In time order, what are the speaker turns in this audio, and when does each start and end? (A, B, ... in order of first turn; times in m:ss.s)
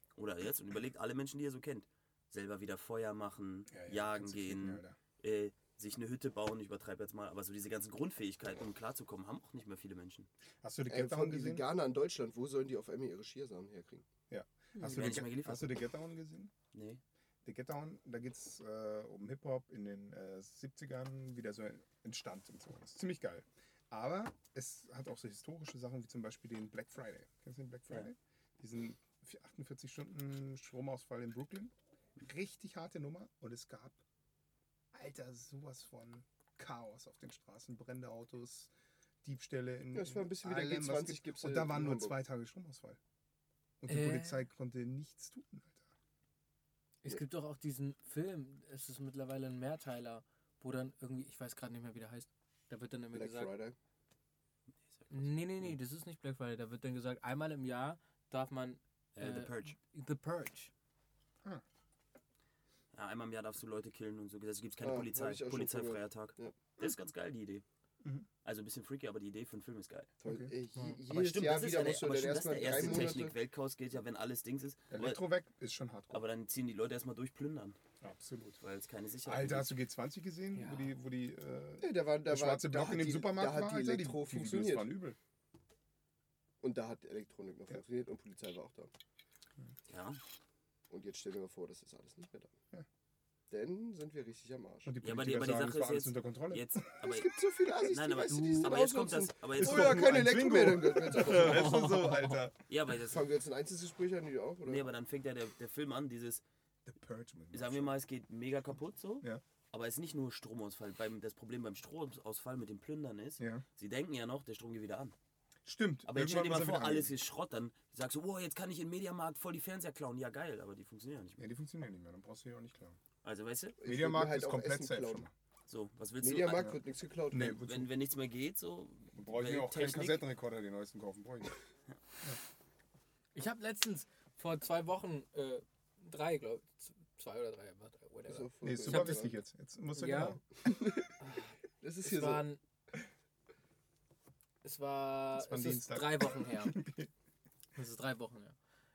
0:00.2-0:10.3 A
0:03.7-0:05.0 B
0:10.6-0:11.6 B
0:10.9-0:14.0 C
0:14.3-0:16.5 B
0:14.9-0:15.8 A
0:16.7-0:17.0 A
0:17.4-0:34.0 B
0:34.9-0:38.7 B
0:39.2-0:43.0 B
0:39.9-0:42.2 C
0:43.8-0:45.9 B
0:43.9-0:44.4 D
0:47.0-0:53.5 D
0:53.1-0:53.8 C
0:54.9-0:55.8 A
0:55.1-1:00.7 D
0:59.2-0:59.8 A
1:02.9-1:07.6 A
1:04.8-1:06.5 C
1:08.4-1:10.1 A
1:10.2-1:13.3 C
1:10.3-1:10.5 B
1:11.1-1:15.2 A
1:14.9-1:16.2 B
1:16.1-1:17.8 A
1:18.0-1:18.6 B
1:18.6-1:19.8 A
1:19.2-1:25.2 B
1:20.5-1:20.9 D
1:21.8-1:24.9 C
1:26.6-1:28.9 C
1:29.9-1:30.2 A
1:30.9-1:32.5 C
1:33.5-1:34.9 C
1:34.8-1:36.8 B
1:35.0-1:37.3 A
1:37.0-1:41.8 C
1:37.8-1:40.1 A
1:38.3-1:38.8 D
1:39.6-1:42.6 B
1:41.2-1:42.4 D
1:42.7-1:43.3 A
1:42.9-1:44.9 C
1:44.6-1:46.4 A
1:46.8-1:48.0 B
1:47.5-1:55.2 A
1:53.4-1:53.6 B
1:55.6-1:57.1 B
1:56.1-2:01.4 A
2:01.4-2:03.0 B
2:03.2-2:03.8 A
2:03.8-2:05.2 C
2:03.8-2:05.3 B
2:05.7-2:06.8 A
2:06.2-2:07.6 C
2:07.3-2:07.9 B
2:07.3-2:10.2 A
2:09.2-2:11.5 B
2:13.3-2:19.3 D
2:18.3-2:19.4 C
2:18.6-2:20.4 B
2:20.0-2:20.4 D
2:20.6-2:21.2 C
2:21.2-2:22.6 D
2:21.8-2:22.5 C
2:24.6-2:26.8 D
2:25.4-2:27.1 B
2:27.8-2:28.6 D